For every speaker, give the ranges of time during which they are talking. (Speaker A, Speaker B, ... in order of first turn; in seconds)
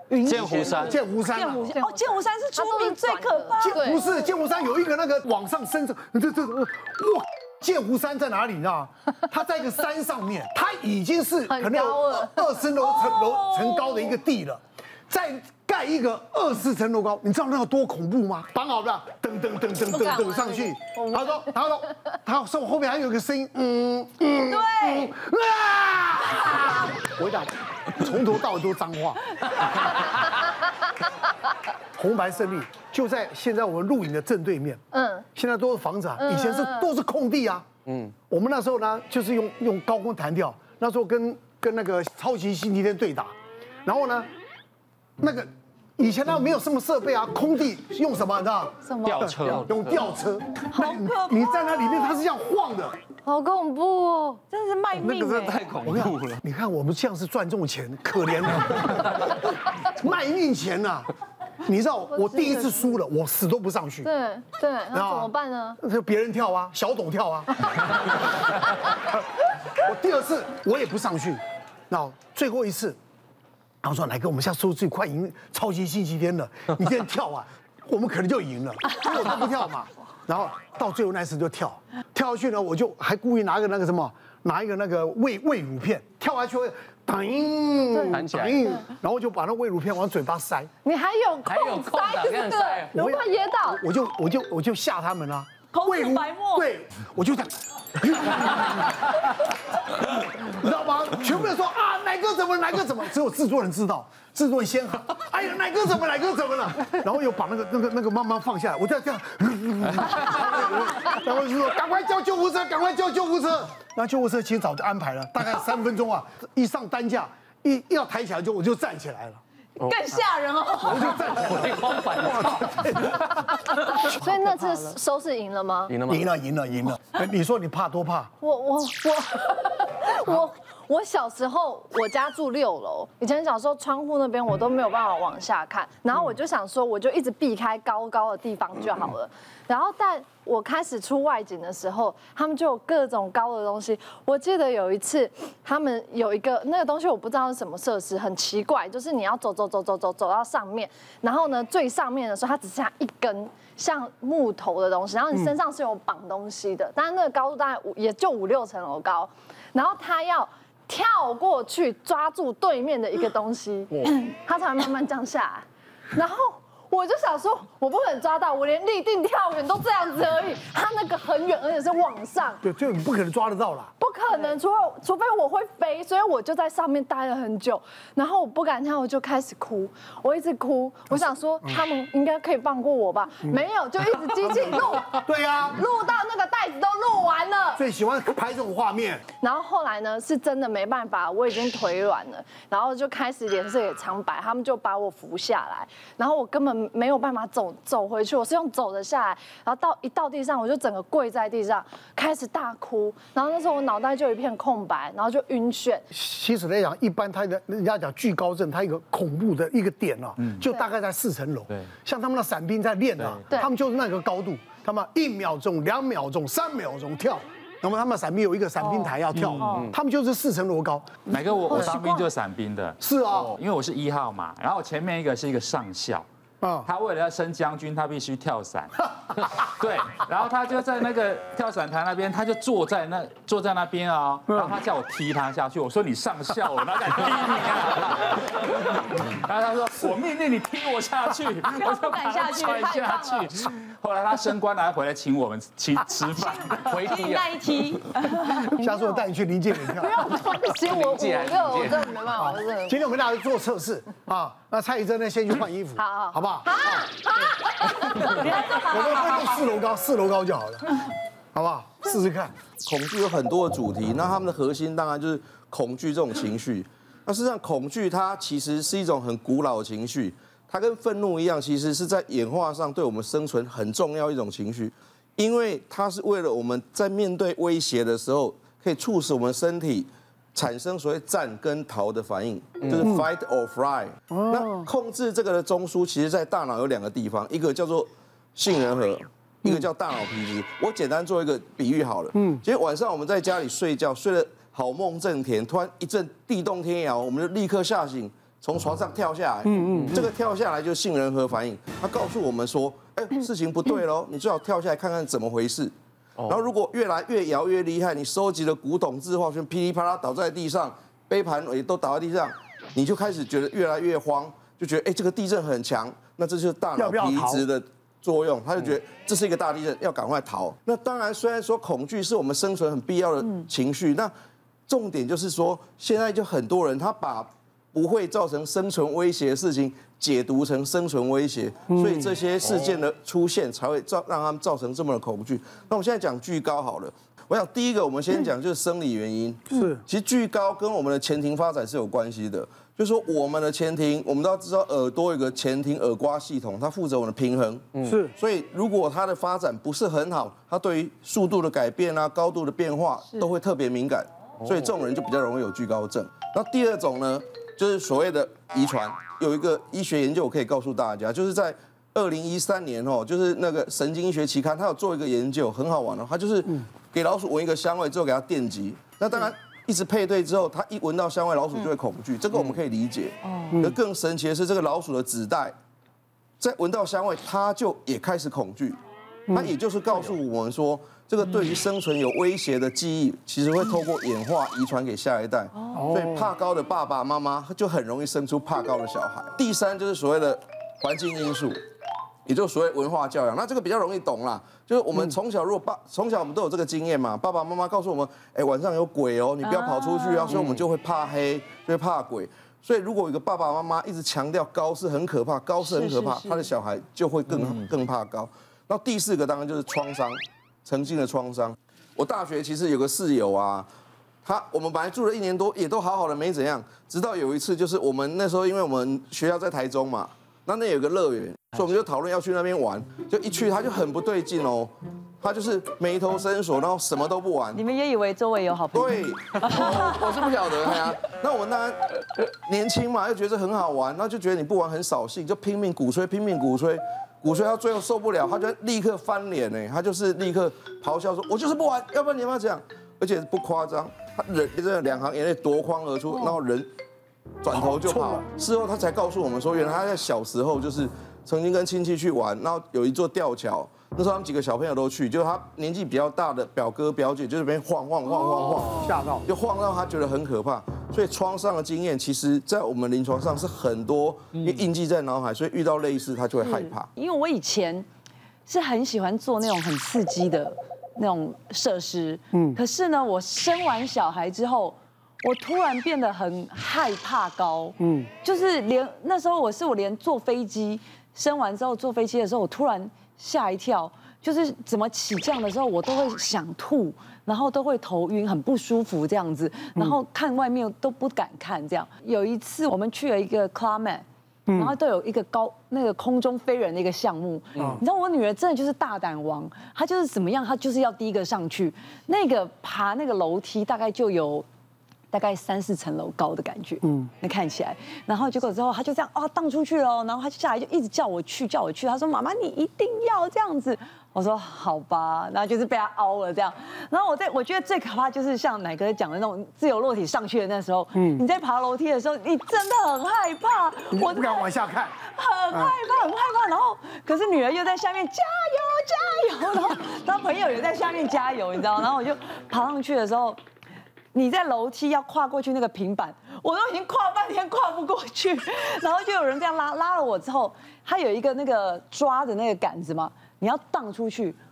Speaker A: 0.1-4.0, 24.5-25.0, 50.7-52.2, 54.5-55.7, 95.7-96.7, 119.8-121.4, 218.8-219.9, 241.7-242.9, 246.3-248.7, 258.2-259.5, 373.4-373.9, 399.6-400.6, 405.8-406.7, 427.7-430.4, 466.6-468.1, 468.6-504.6, 505.3-533.6, 534.3-544.6
Speaker B: 0.2-0.9, 49.0-50.0, 55.7-56.0, 221.3-226.2, 226.8-247.0
Speaker C: 0.3-0.9, 88.1-88.6, 91.5-92.9, 121.4-123.2, 125.9-126.3, 219.4-219.9, 246.8-247.6, 250.8-252.1
Speaker D: 0.7-1.7, 3.6-29.5, 31.9-34.8, 35.3-37.7, 38.3-44.3, 45.2-53.0, 55.0-61.1, 61.6-64.1, 64.9-67.9, 69.8-73.0, 73.8-90.7, 92.9-119.4, 120.8-124.5, 126.1-128.3, 172.6-173.9, 181.1-181.8, 185.1-185.8, 187.8-189.2, 206.1-221.8, 223.0-223.5, 226.6-226.9, 248.8-250.3, 252.3-257.1, 258.2-260.9, 261.5-262.5, 282.9-283.3, 284.3-284.9, 292.3-292.6, 299.7-300.2, 316.9-317.6, 331.9-332.3, 339.7-340.0, 348.0-348.3, 385.9-386.5, 447.7-448.4, 458.6-459.5, 472.5-472.8, 478.0-478.3, 494.7-494.9, 507.0-507.3, 521.1-521.4, 524.1-525.2, 525.7-526.0
Speaker E: 1.7-4.0, 11.5-14.0, 19.9-21.4, 34.9-35.2, 36.2-36.9, 48.8-49.3, 53.2-54.4, 62.1-63.0, 64.0-65.8, 87.9-88.2, 90.8-93.8, 124.1-125.9, 128.4-172.6, 174.0-187.8, 189.4-206.1, 221.7-222.3, 242.7-243.5, 248.8-249.3, 249.8-253.0, 255.9-258.5
Speaker F: 262.8-305.9, 306.4-324.3, 324.9-375.8, 376.6-379.0, 379.5-391.8, 392.4-413.9, 414.4-427.8, 428.9-446.9, 447.6-467.1